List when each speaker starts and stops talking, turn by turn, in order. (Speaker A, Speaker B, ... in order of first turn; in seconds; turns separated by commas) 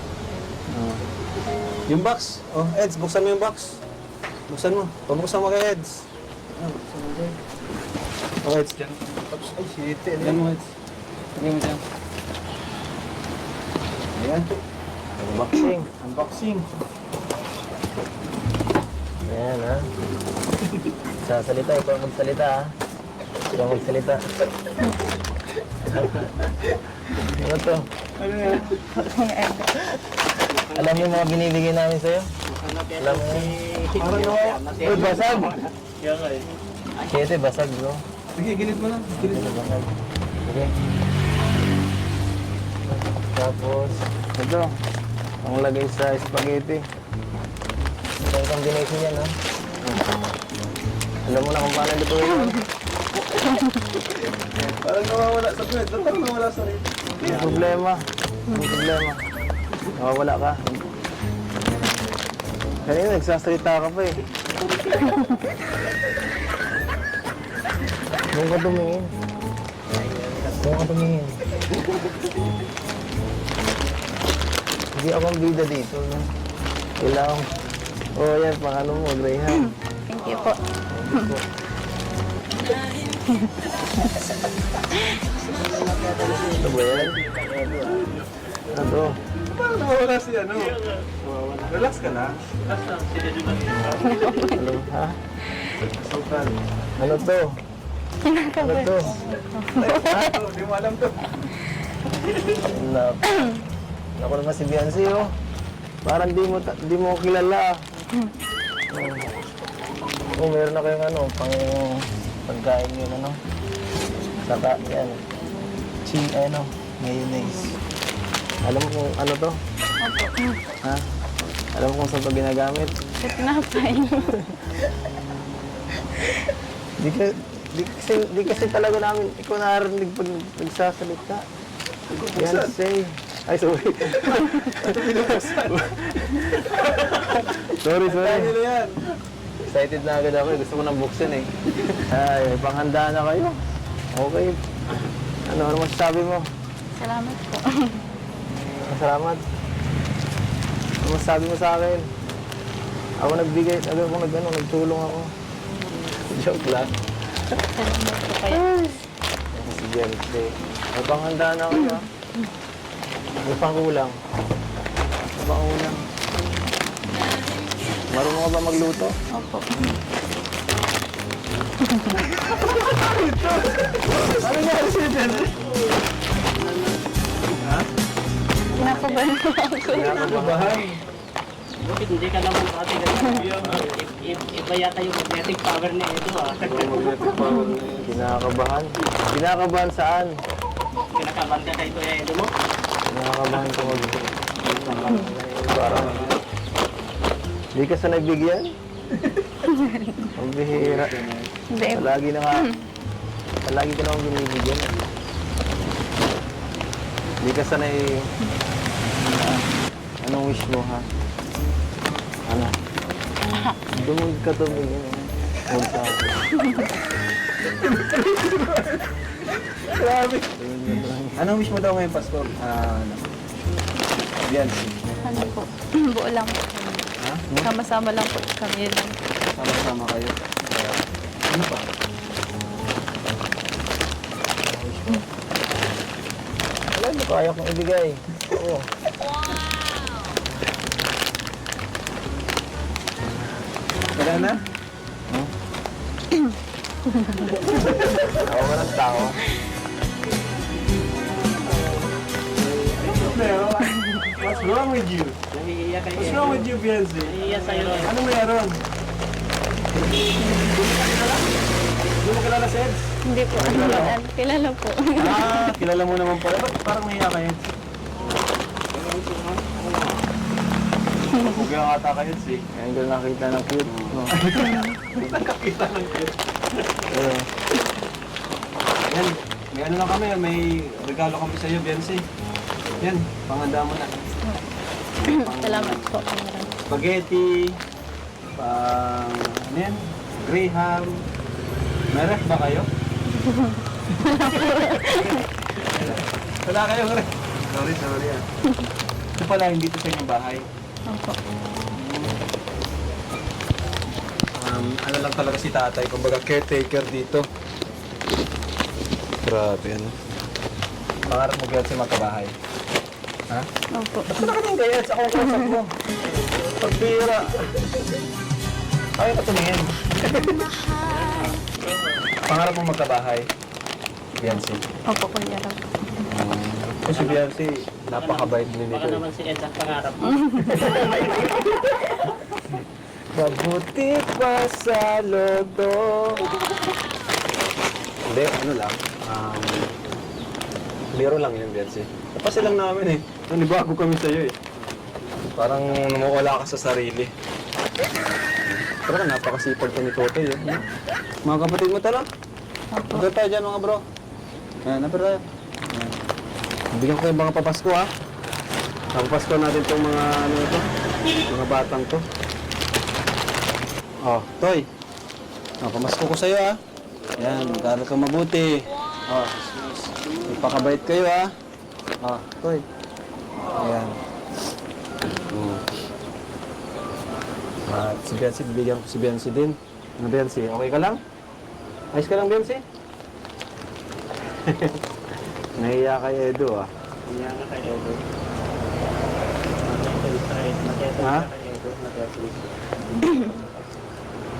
Speaker A: 0.7-1.0, Speaker A: 1.9-3.8, Speaker A: 4.5-7.3, Speaker A: 8.4-10.7, Speaker A: 11.4-11.8, Speaker A: 14.1-14.4, Speaker B: 15.2-15.9, Speaker A: 16.0-16.7, Speaker B: 19.2-19.9, Speaker B: 21.2-22.7, Speaker B: 23.5-24.2, Speaker B: 25.9-26.3, Speaker B: 27.2-27.9, Speaker A: 28.2-28.8, Speaker C: 28.5-30.0, Speaker D: 30.4-31.3, Speaker B: 30.7-32.3, Speaker D: 32.5-36.5, Speaker B: 33.0-33.5, Speaker A: 34.0-34.6, Speaker B: 34.8-35.5, Speaker B: 37.0-38.0, Speaker A: 38.3-39.5, Speaker B: 39.1-39.9, Speaker B: 40.4-40.7, Speaker B: 43.3-44.7, Speaker B: 45.4-46.8, Speaker B: 48.1-49.3, Speaker B: 51.2-52.6, Speaker A: 54.0-57.8, Speaker B: 57.2-59.2, Speaker C: 58.5-58.8, Speaker B: 60.0-60.8, Speaker B: 62.8-64.2, Speaker B: 68.3-69.1, Speaker D: 70.0-70.6, Speaker B: 70.5-71.4, Speaker B: 75.0-76.3, Speaker B: 77.0-77.5, Speaker B: 78.2-79.7, Speaker C: 80.1-80.6, Speaker B: 80.9-81.4, Speaker C: 83.3-83.5, Speaker D: 85.5-88.3, Speaker B: 86.4-87.2, Speaker B: 88.7-89.2, Speaker A: 89.5-90.8, Speaker D: 91.0-92.0, Speaker A: 91.7-92.4, Speaker D: 92.6-94.4, Speaker B: 93.7-95.2, Speaker C: 94.0-94.6, Speaker A: 95.8-96.6, Speaker B: 97.0-97.6, Speaker C: 98.2-100.3, Speaker B: 98.6-99.2, Speaker A: 99.7-101.4, Speaker B: 102.6-103.4, Speaker B: 104.2-105.3, Speaker B: 106.0-107.8, Speaker B: 108.9-109.3, Speaker B: 110.3-113.4, Speaker B: 114.4-115.2, Speaker B: 116.0-117.8, Speaker B: 118.6-119.6, Speaker C: 120.0-120.6, Speaker B: 121.7-122.9, Speaker C: 123.2-124.6, Speaker B: 127.0-131.4, Speaker A: 132.1-132.8, Speaker B: 132.3-134.8, Speaker A: 134.1-139.2, Speaker B: 137.7-138.5, Speaker B: 139.6-141.5, Speaker B: 142.1-143.5, Speaker B: 144.1-144.6, Speaker B: 145.5-146.4, Speaker C: 146.9-148.0, Speaker B: 148.6-149.4, Speaker B: 151.0-152.1, Speaker B: 153.2-155.3, Speaker B: 156.1-156.9, Speaker C: 157.7-158.6, Speaker B: 158.5-159.0, Speaker B: 159.5-162.0, Speaker B: 163.4-164.2, Speaker B: 165.4-166.0, Speaker B: 168.1-169.1, Speaker C: 169.3-170.0, Speaker C: 171.8-172.2, Speaker A: 172.6-175.7, Speaker D: 176.6-177.0, Speaker A: 177.5-177.9, Speaker D: 178.7-179.3, Speaker C: 178.8-180.3, Speaker A: 179.9-181.0, Speaker B: 180.1-180.8, Speaker D: 181.8-187.2, Speaker A: 183.4-183.9, Speaker A: 186.6-188.2, Speaker B: 188.0-190.3, Speaker D: 191.1-192.5, Speaker B: 193.1-194.3, Speaker A: 193.5-196.4, Speaker D: 194.9-195.2, Speaker B: 195.1-196.2, Speaker B: 197.7-198.7, Speaker A: 199.1-199.5, Speaker C: 199.7-200.3, Speaker B: 200.4-201.2, Speaker A: 200.7-201.5, Speaker C: 201.7-202.8, Speaker B: 201.9-202.7, Speaker B: 203.6-205.0, Speaker B: 207.4-208.3, Speaker B: 209.2-209.6, Speaker B: 210.2-211.1, Speaker B: 212.5-212.7, Speaker B: 213.9-216.3, Speaker A: 217.7-223.2, Speaker B: 220.5-221.4, Speaker A: 224.4-225.0, Speaker C: 225.2-229.2, Speaker A: 227.2-227.6, Speaker A: 229.4-231.9, Speaker B: 236.9-238.9, Speaker A: 244.1-244.6, Speaker C: 247.1-247.4, Speaker A: 247.8-248.3, Speaker B: 248.3-249.4, Speaker D: 252.6-253.7, Speaker A: 253.0-255.4, Speaker D: 255.5-256.7, Speaker A: 256.1-258.8, Speaker D: 257.2-258.3, Speaker A: 260.5-261.4, Speaker A: 262.1-264.2, Speaker C: 263.2-265.8, Speaker A: 265.2-267.7, Speaker D: 268.9-269.9, Speaker A: 271.3-272.6, Speaker B: 272.7-274.4, Speaker A: 273.8-276.3, Speaker B: 277.1-277.5, Speaker A: 279.1-282.2, Speaker A: 283.0-284.3, Speaker C: 285.2-286.8, Speaker A: 285.2-286.1, Speaker A: 286.9-287.8, Speaker A: 288.6-291.2, Speaker A: 292.1-292.9, Speaker C: 293.4-295.4, Speaker A: 294.3-298.4, Speaker A: 299.4-300.6, Speaker C: 301.1-301.4, Speaker A: 301.9-302.4, Speaker A: 304.5-307.5, Speaker A: 309.4-310.1, Speaker A: 311.2-312.5, Speaker C: 313.9-314.5, Speaker A: 314.3-315.9, Speaker C: 315.4-315.8, Speaker A: 316.6-318.0, Speaker A: 319.1-320.6, Speaker D: 321.1-321.6, Speaker A: 322.4-323.5, Speaker A: 324.4-324.8, Speaker C: 325.1-326.2, Speaker A: 326.3-329.2, Speaker D: 327.1-327.5, Speaker D: 328.1-331.5, Speaker C: 330.2-330.9, Speaker A: 330.8-331.9, Speaker A: 333.4-336.6, Speaker B: 333.8-336.2, Speaker A: 338.2-339.9, Speaker A: 341.1-344.6, Speaker A: 345.5-347.3, Speaker A: 348.7-350.8, Speaker A: 351.4-352.3, Speaker C: 352.9-353.3, Speaker A: 353.0-354.0, Speaker A: 354.8-356.2, Speaker A: 356.9-358.1, Speaker A: 359.1-360.9, Speaker A: 361.5-362.2, Speaker A: 364.2-364.9, Speaker A: 365.8-366.8, Speaker A: 367.4-371.5, Speaker A: 372.2-372.9, Speaker A: 373.7-374.2, Speaker A: 375.4-376.0, Speaker A: 377.9-381.2, Speaker A: 382.1-382.8, Speaker A: 384.5-385.0, Speaker A: 385.8-386.9, Speaker D: 387.3-388.2, Speaker D: 389.8-393.6, Speaker A: 391.2-391.5